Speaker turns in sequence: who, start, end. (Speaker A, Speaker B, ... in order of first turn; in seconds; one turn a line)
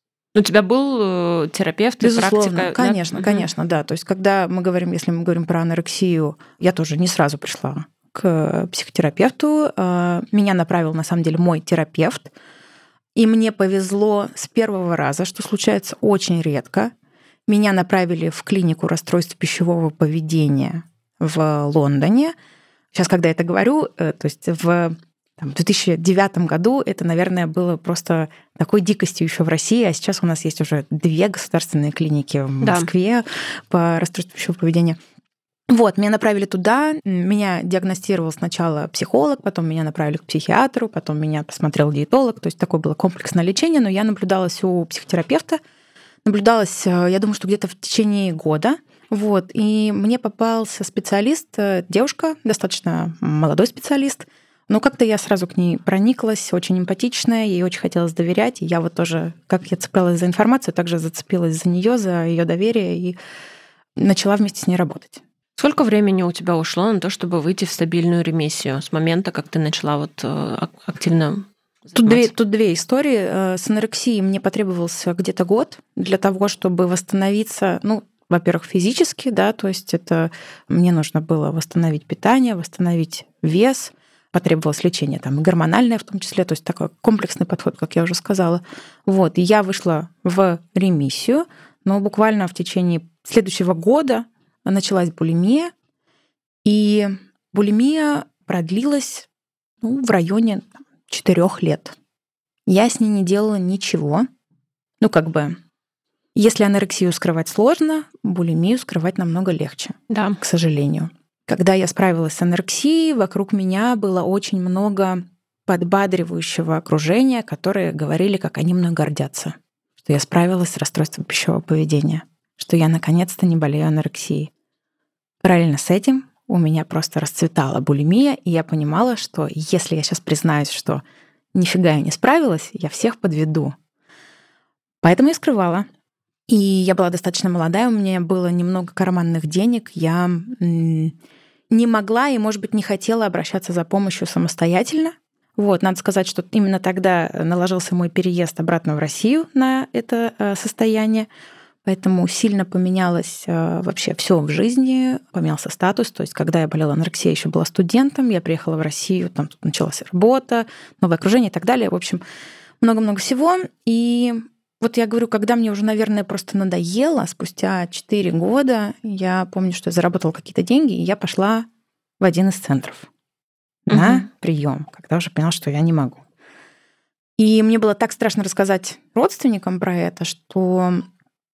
Speaker A: 0.3-3.5
Speaker B: 2.0-12.3
Speaker B: 13.1-16.9
Speaker B: 17.5-22.3
Speaker B: 22.9-35.0
Speaker A: 32.6-32.9
Speaker B: 35.7-45.6
Speaker B: 46.2-63.2
Speaker B: 64.0-65.2
Speaker A: 65.6-72.3
Speaker B: 71.9-95.7
Speaker B: 96.6-99.3
Speaker B: 99.8-102.0
Speaker B: 102.7-104.2
Speaker B: 105.0-105.6
Speaker B: 106.3-124.5
Speaker A: 110.1-110.4
Speaker B: 125.4-131.0
Speaker B: 131.5-133.7
Speaker B: 135.0-135.8
Speaker B: 136.5-141.1
Speaker B: 141.7-151.3
Speaker B: 151.8-162.2
Speaker B: 162.8-171.7
Speaker B: 172.2-173.1
Speaker B: 173.9-176.2
Speaker A: 173.9-174.2
Speaker B: 177.4-181.1